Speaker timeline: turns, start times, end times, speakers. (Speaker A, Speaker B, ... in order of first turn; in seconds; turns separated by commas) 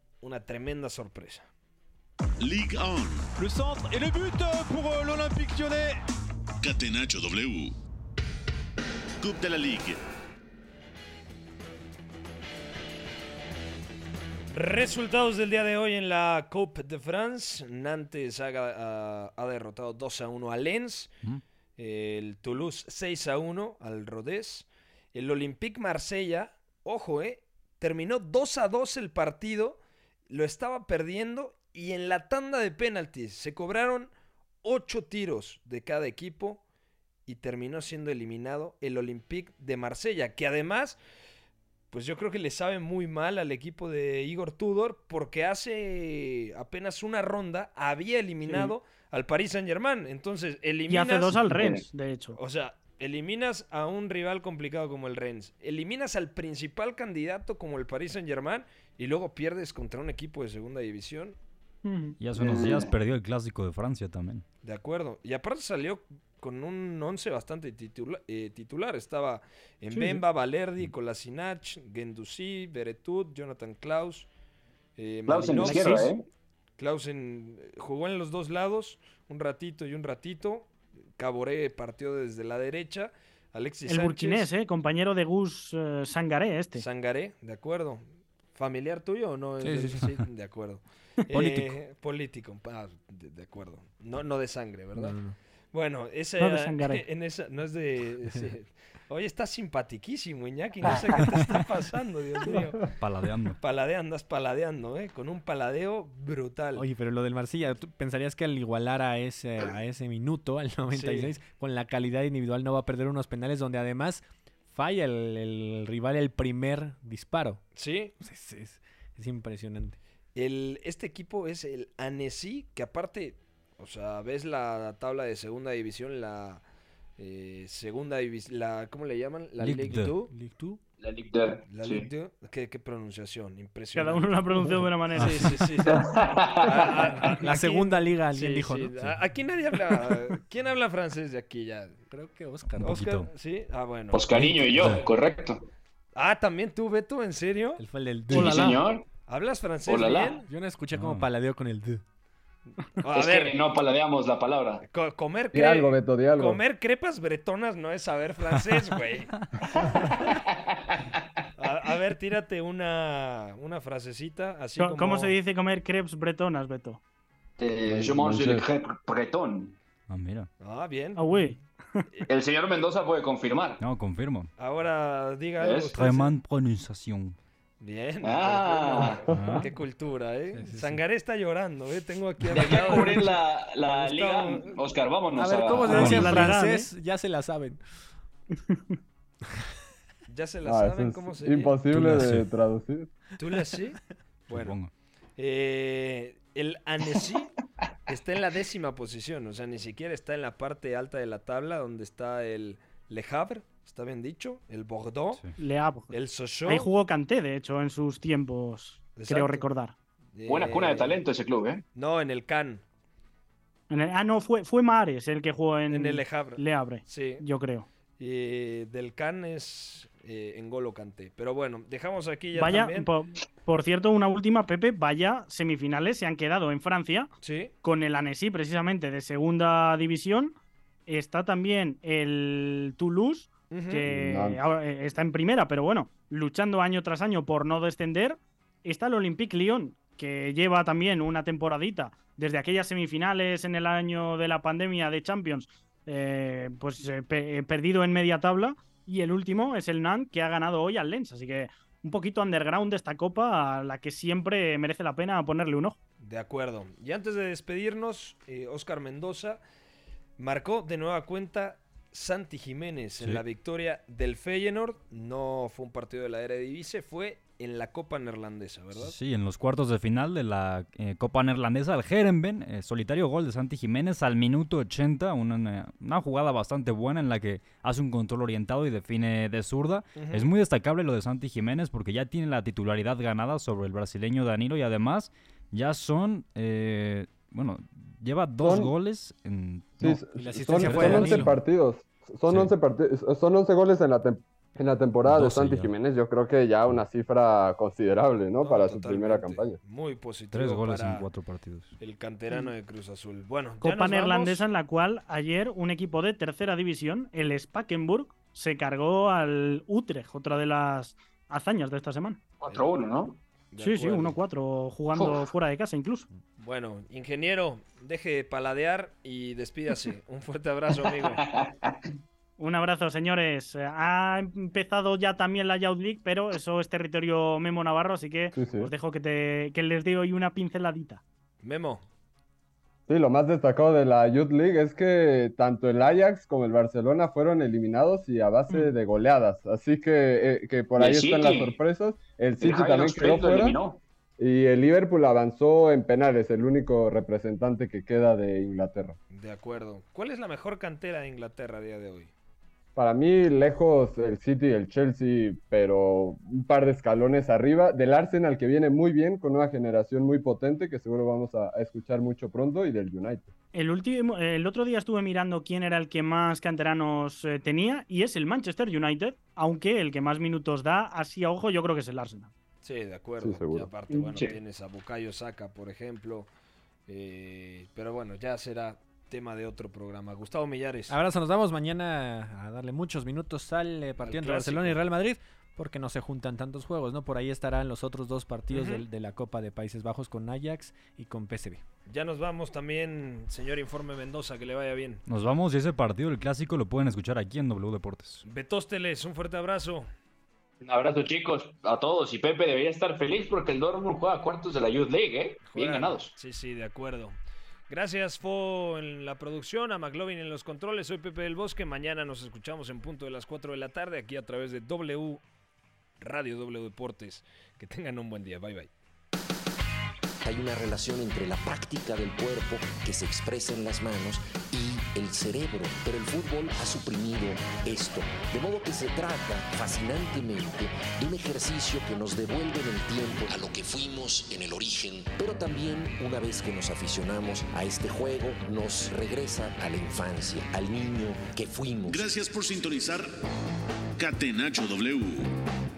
Speaker A: 0.2-1.5, Speaker B: 2.4-3.3, Speaker C: 3.4-6.0, Speaker B: 6.6-7.7, Speaker B: 9.2-10.0, Speaker A: 14.5-21.1, Speaker A: 21.8-34.1, Speaker A: 34.6-36.6, Speaker A: 37.3-41.0, Speaker A: 41.9-51.6, Speaker D: 50.9-52.4, Speaker E: 51.5-51.8, Speaker A: 52.3-61.3, Speaker D: 61.8-62.2, Speaker F: 62.2-64.4, Speaker E: 62.4-62.9, Speaker A: 64.6-74.3, Speaker D: 69.9-70.2, Speaker A: 75.0-76.1, Speaker E: 75.3-76.2, Speaker D: 75.6-76.1, Speaker A: 76.8-84.5, Speaker D: 83.8-86.8, Speaker A: 86.7-95.2, Speaker G: 89.6-90.1, Speaker G: 91.3-91.8, Speaker G: 94.9-95.3, Speaker A: 95.7-103.0, Speaker D: 96.4-97.0, Speaker F: 103.0-103.6, Speaker A: 103.6-106.9, Speaker G: 106.8-117.6, Speaker A: 110.9-111.4, Speaker A: 117.8-118.1, Speaker G: 118.2-120.0, Speaker A: 120.3-126.6, Speaker A: 127.2-130.3, Speaker F: 129.6-130.2, Speaker G: 130.3-130.8, Speaker E: 131.0-132.1, Speaker A: 131.7-134.4, Speaker D: 133.9-135.5, Speaker F: 135.2-135.4, Speaker A: 135.2-142.0, Speaker E: 135.8-137.1, Speaker G: 137.2-139.2, Speaker G: 142.1-143.0, Speaker F: 142.8-143.3, Speaker A: 142.8-145.0, Speaker E: 144.1-145.7, Speaker F: 144.8-145.0, Speaker A: 146.2-148.7, Speaker G: 147.8-148.8, Speaker E: 148.3-149.0, Speaker A: 149.3-150.4, Speaker E: 149.8-150.3, Speaker G: 150.5-152.0, Speaker F: 150.9-151.3, Speaker A: 153.0-153.6, Speaker E: 153.1-154.8, Speaker A: 154.8-159.3, Speaker H: 155.5-156.6, Speaker E: 160.3-161.2, Speaker A: 161.6-165.3, Speaker D: 164.8-167.0, Speaker E: 167.6-169.7, Speaker H: 167.8-168.6, Speaker F: 170.1-170.5, Speaker A: 170.6-171.4, Speaker D: 171.2-172.0, Speaker E: 172.3-173.8, Speaker F: 173.8-174.5, Speaker A: 174.6-176.3, Speaker E: 175.6-175.9, Speaker F: 175.9-177.3, Speaker A: 177.8-184.8, Speaker E: 178.2-179.2, Speaker F: 179.3-179.7, Speaker G: 180.5-181.0, Speaker E: 182.5-186.5, Speaker G: 185.3-187.8, Speaker D: 185.9-186.9, Speaker F: 185.9-186.4, Speaker D: 188.7-188.9, Speaker A: 190.3-191.8, Speaker H: 190.6-193.1, Speaker F: 191.9-192.4, Speaker A: 193.4-194.8, Speaker F: 194.5-194.9, Speaker A: 195.4-197.5, Speaker A: 198.1-205.4, Speaker D: 205.6-206.1, Speaker A: 206.1-206.9, Speaker D: 206.7-209.9, Speaker A: 209.2-209.7, Speaker A: 210.3-211.2, Speaker E: 210.5-211.8, Speaker A: 211.9-212.8, Speaker D: 213.9-217.9, Speaker A: 215.9-217.4, Speaker A: 218.2-223.1, Speaker D: 222.5-227.3, Speaker A: 227.4-227.7, Speaker D: 227.8-230.5, Speaker D: 231.1-256.0, Speaker A: 233.7-234.0, Speaker H: 234.1-234.6, Speaker A: 256.2-259.6, Speaker A: 260.4-269.1, Speaker F: 268.9-290.2, Speaker A: 280.1-280.5, Speaker H: 288.6-288.9, Speaker H: 290.0-299.8, Speaker G: 290.3-291.5, Speaker F: 290.7-291.5, Speaker F: 295.2-295.9, Speaker A: 298.6-301.2, Speaker F: 300.5-301.9, Speaker A: 302.0-304.6, Speaker D: 303.8-312.4, Speaker E: 312.6-313.4, Speaker A: 313.7-314.3, Speaker D: 313.8-316.3, Speaker E: 315.1-315.4, Speaker A: 316.6-321.4, Speaker E: 321.2-321.9, Speaker D: 322.6-331.2, Speaker H: 328.5-328.9, Speaker A: 331.6-332.0, Speaker H: 333.1-343.8, Speaker D: 338.7-338.9, Speaker E: 341.0-341.8, Speaker E: 342.6-344.0, Speaker H: 344.4-349.2, Speaker A: 349.3-352.3, Speaker H: 352.9-363.5, Speaker D: 363.7-372.5, Speaker A: 372.8-376.5, Speaker H: 373.4-373.9, Speaker E: 374.1-374.5, Speaker A: 377.1-381.2, Speaker G: 381.1-391.8, Speaker A: 384.2-385.0, Speaker A: 388.7-389.0, Speaker A: 392.1-395.2, Speaker F: 395.3-398.4, Speaker A: 398.4-400.1, Speaker E: 400.8-406.3, Speaker A: 405.6-407.4, Speaker A: 407.9-415.4, Speaker A: 416.2-418.9, Speaker I: 420.4-442.2, Speaker B: 442.1-443.3, Speaker B: 444.2-445.5